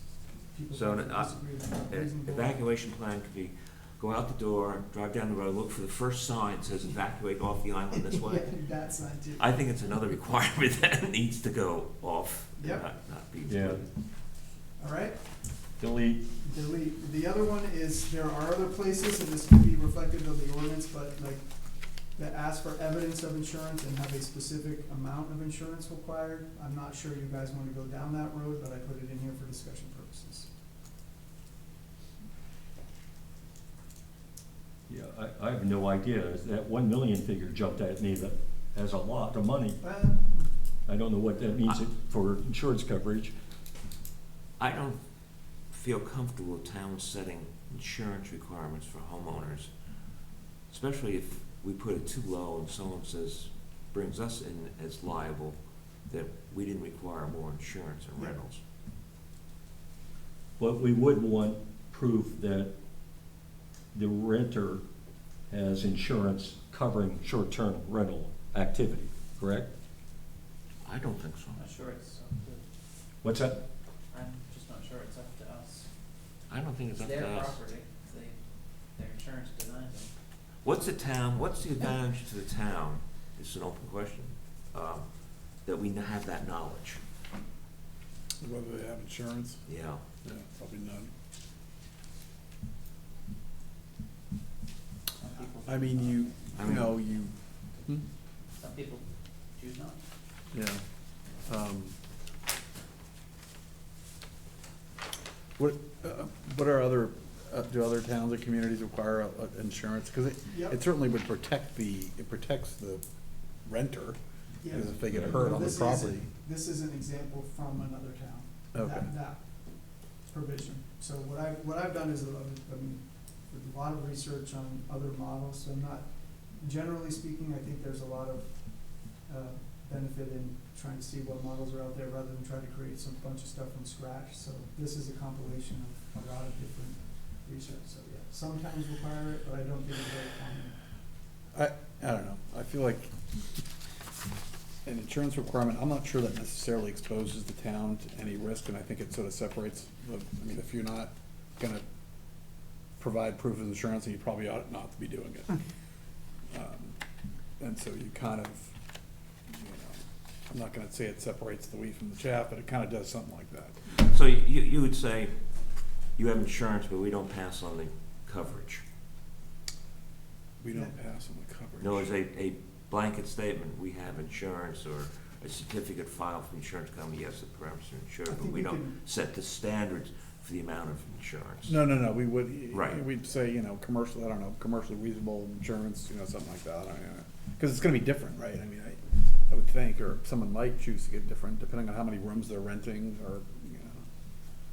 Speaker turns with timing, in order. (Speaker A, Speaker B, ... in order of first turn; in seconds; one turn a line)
Speaker A: 0.5-2.6
Speaker B: 0.7-8.5
Speaker A: 7.9-9.5
Speaker B: 9.4-13.9
Speaker A: 12.6-12.9
Speaker C: 13.5-13.8
Speaker A: 14.8-15.2
Speaker C: 15.8-16.2
Speaker A: 16.4-21.4
Speaker A: 22.1-30.5
Speaker C: 34.9-39.8
Speaker A: 39.8-40.5
Speaker C: 40.9-43.4
Speaker B: 44.6-45.0
Speaker B: 45.7-49.7
Speaker B: 50.7-55.6
Speaker B: 56.1-58.6
Speaker C: 60.6-62.7
Speaker C: 63.9-64.8
Speaker C: 65.5-69.7
Speaker B: 70.8-71.6
Speaker D: 71.5-72.6
Speaker C: 73.2-73.6
Speaker D: 74.1-75.9
Speaker B: 76.5-77.6
Speaker D: 76.9-80.1
Speaker B: 80.6-85.1
Speaker B: 85.6-87.0
Speaker E: 88.4-89.7
Speaker B: 89.7-90.0
Speaker E: 90.2-91.1
Speaker D: 95.2-96.6
Speaker E: 95.7-97.3
Speaker B: 96.6-97.0
Speaker D: 98.6-100.0
Speaker E: 100.5-100.8
Speaker E: 101.5-102.0
Speaker E: 105.6-113.0
Speaker A: 110.5-110.8
Speaker E: 113.7-114.2
Speaker A: 114.6-140.8
Speaker E: 114.7-116.3
Speaker E: 118.7-119.1
Speaker E: 141.5-143.1
Speaker E: 144.8-151.8
Speaker E: 153.0-155.6
Speaker E: 156.5-156.9
Speaker E: 157.6-158.7
Speaker E: 159.5-160.0
Speaker E: 160.5-163.8
Speaker B: 164.0-165.4
Speaker B: 166.2-168.8
Speaker E: 170.6-172.2
Speaker B: 171.8-181.8
Speaker A: 178.3-179.0
Speaker E: 181.7-194.1
Speaker B: 182.7-183.0